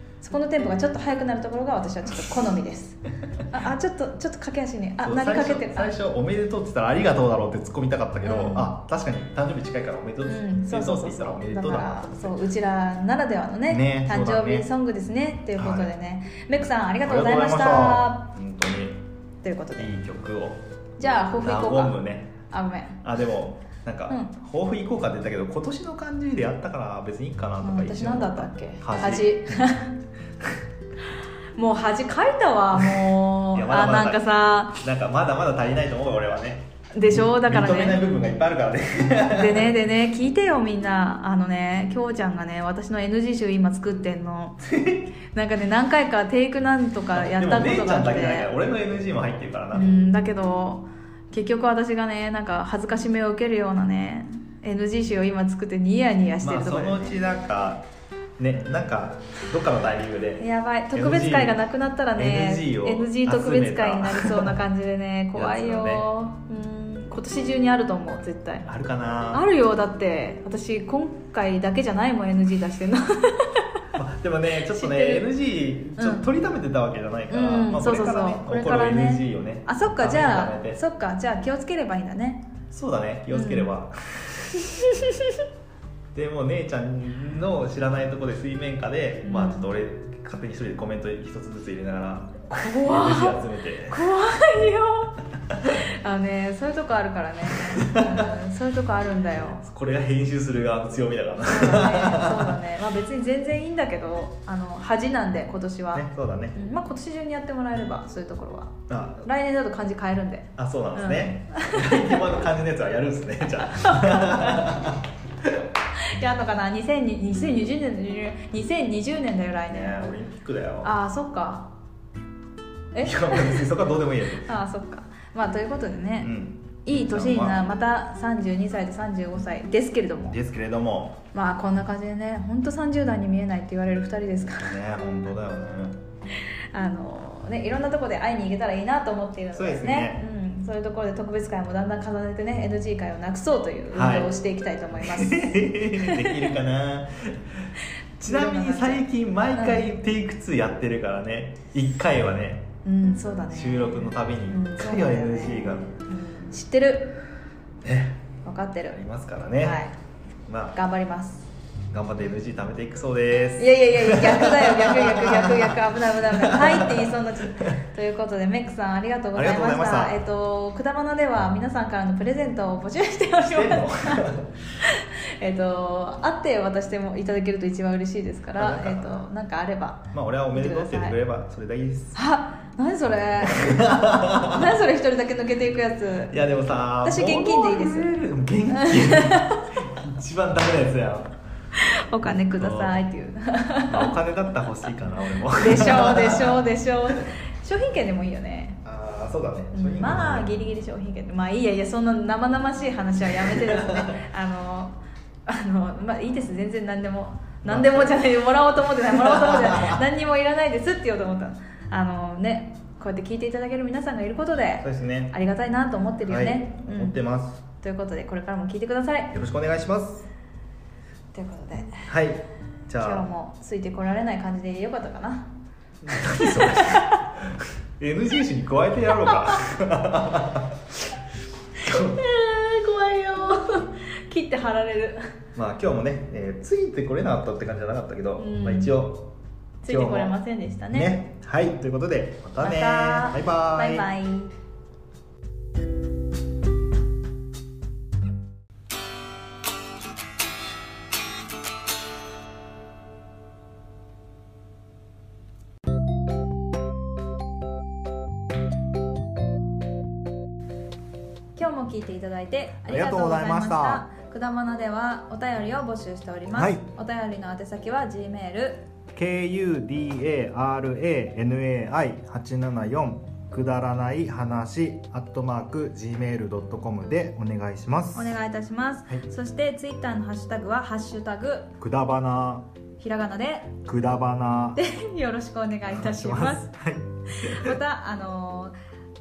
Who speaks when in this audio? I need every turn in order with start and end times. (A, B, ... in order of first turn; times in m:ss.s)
0:00.2-0:06.0 A
0:05.0-0:12.4 B
0:08.2-0:08.8 A
0:10.2-0:18.3 A
0:13.7-0:14.7 B
0:15.6-0:15.9 B
0:17.0-0:19.0 B
0:19.4-0:19.9 A
0:19.8-0:20.6 B
0:21.0-0:22.0 A
0:21.2-0:22.3 B
0:22.5-0:23.0 A
0:23.0-0:29.4 B
0:27.6-0:30.0 A
0:31.6-0:34.8 A
0:33.5-0:39.8 B
0:36.9-0:38.1 A
0:39.3-0:44.6 A
0:45.3-0:48.5 A
0:47.1-0:49.9 B
0:49.7-0:57.2 A
0:56.4-0:57.8 B
0:58.4-1:01.6 B
1:00.4-1:08.7 A
1:02.2-1:04.6 B
1:05.3-1:06.1 B
1:08.7-1:09.4 B
1:09.3-1:13.8 A
1:13.9-1:20.8 B
1:14.6-1:15.3 A
1:16.0-1:16.3 A
1:17.3-1:22.4 A
1:22.7-1:24.3 B
1:23.3-1:23.7 A
1:24.6-1:25.4 A
1:26.1-1:34.0 B
1:29.2-1:29.7 A
1:32.5-1:35.2 A
1:35.7-1:39.6 A
1:37.8-1:38.3 B
1:39.6-1:42.6 B
1:41.5-1:52.2 A
1:45.9-1:46.6 B
1:48.9-1:49.3 B
1:50.6-1:55.5 B
1:53.7-1:54.7 A
1:56.2-2:00.1 A
1:59.7-2:00.9 B
2:00.8-2:01.7 A
2:02.9-2:03.7 A
2:03.0-2:04.5 B
2:04.4-2:06.3 A
2:06.2-2:07.6 B
2:06.8-2:10.4 A
2:10.3-2:11.2 B
2:11.3-2:14.8 A
2:14.5-2:16.0 B
2:16.7-2:26.5 A
2:19.5-2:20.2 B
2:23.9-2:24.3 B
2:25.0-2:27.5 B
2:28.2-2:32.7 B
2:28.2-2:29.9 A
2:32.8-2:37.2 A
2:33.5-2:35.9 B
2:37.8-2:38.2 B
2:38.4-2:39.0 A
2:38.9-2:39.8 B
2:39.6-2:39.9 A
2:40.5-2:40.8 B
2:40.7-2:41.5 A
2:41.9-2:47.8 B
2:43.6-2:54.3 A
2:49.4-2:50.2 B
2:53.5-2:54.5 B
2:54.8-3:01.2 A
2:58.6-2:59.2 B
3:00.1-3:02.2 B
3:02.2-3:06.4 A
3:03.5-3:04.6 B
3:06.3-3:11.3 B
3:07.0-3:08.1 A
3:08.7-3:09.7 A
3:11.8-3:14.2 A
3:12.6-3:13.0 B
3:13.9-3:16.7 B
3:15.6-3:18.8 A
3:18.8-3:20.5 B
3:19.7-3:24.9 A
3:23.4-3:24.1 B
3:25.5-3:37.2 A
3:27.6-3:28.3 B
3:29.1-3:30.0 B
3:34.8-3:35.3 B
3:36.3-3:37.6 B
3:37.8-3:39.3 A
3:39.3-3:40.3 B
3:41.3-3:42.1 A
3:42.1-3:43.3 B
3:43.0-3:45.5 A
3:46.0-3:50.8 B
3:46.2-3:47.2 A
3:49.3-3:49.5 A
3:51.8-3:55.2 A
3:51.9-3:52.2 B
3:55.6-3:59.2 B
3:58.4-3:59.0 A
3:59.8-4:01.2 A
3:59.9-4:00.4 B
4:00.9-4:04.1 B
4:02.6-4:04.5 A
4:21.6-4:28.8 A
4:22.9-4:24.0 B
4:26.5-4:26.9 B
4:29.1-4:38.4 B
4:38.2-4:41.7 A
4:41.8-4:42.6 B
4:43.0-4:43.8 A
4:43.8-4:44.8 B
4:44.8-4:46.7 A
4:45.9-4:47.8 B
4:47.3-4:48.7 A